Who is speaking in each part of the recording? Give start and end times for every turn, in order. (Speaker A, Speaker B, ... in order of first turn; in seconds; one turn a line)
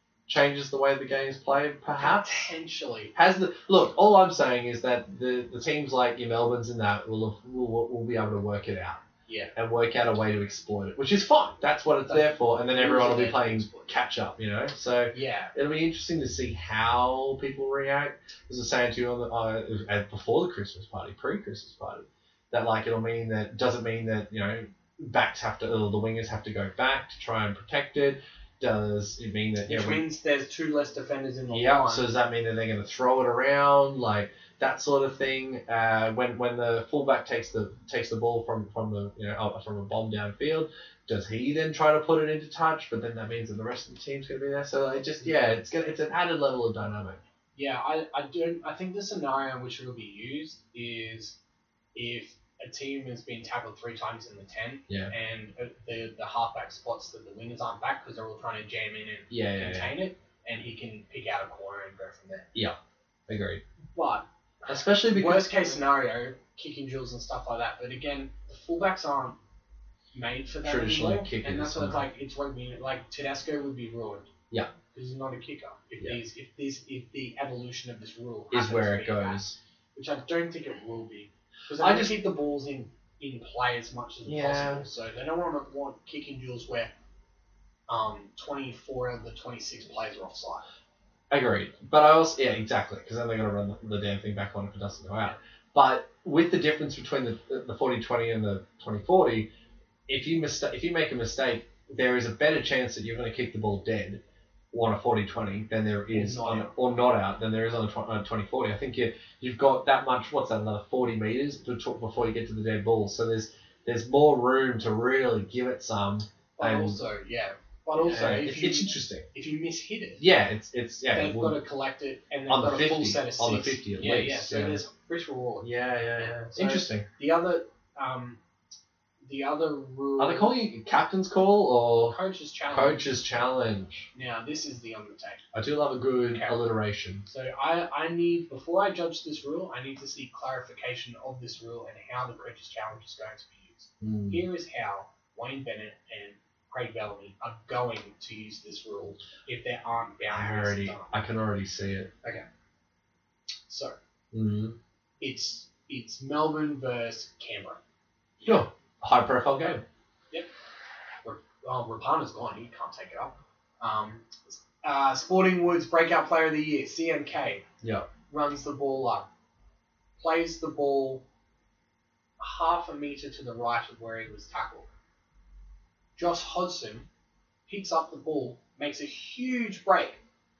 Speaker A: 0.3-2.5
Speaker B: 1.9-3.1
Speaker A: 3.1-9.0
Speaker B: 9.3-9.5
Speaker A: 9.5-30.0
Speaker B: 12.1-13.9
Speaker B: 15.1-15.5
Speaker B: 29.6-32.1
Speaker A: 31.5-47.2
Speaker B: 47.5-51.4
Speaker B: 51.9-62.5
Speaker A: 59.3-60.0
Speaker A: 63.3-63.6
Speaker B: 63.9-69.4
Speaker A: 64.7-65.6
Speaker B: 70.1-74.3
Speaker A: 70.6-72.1
Speaker B: 74.9-79.4
Speaker A: 78.5-79.6
Speaker B: 79.9-86.9
Speaker A: 81.8-82.2
Speaker A: 84.2-84.8
Speaker B: 87.9-90.6
Speaker A: 91.3-99.5
Speaker A: 100.1-117.0
Speaker B: 106.1-106.7
Speaker B: 116.6-120.2
Speaker A: 117.9-119.3
Speaker A: 120.2-121.6
Speaker B: 121.1-128.4
Speaker A: 122.5-124.8
Speaker A: 125.6-127.0
Speaker B: 129.2-130.6
Speaker A: 130.2-132.2
Speaker B: 132.0-133.1
Speaker A: 132.7-134.1
Speaker B: 134.1-135.4
Speaker A: 135.5-137.2
Speaker B: 136.3-136.6
Speaker B: 137.2-151.2
Speaker A: 144.0-144.4
Speaker A: 150.3-152.1
Speaker B: 153.7-154.0
Speaker A: 154.3-154.8
Speaker B: 155.2-157.8
Speaker A: 158.4-159.8
Speaker B: 161.2-167.6
Speaker A: 167.8-168.1
Speaker B: 168.3-169.3
Speaker B: 170.2-171.2
Speaker B: 172.4-174.9
Speaker B: 176.2-177.1
Speaker B: 177.7-180.2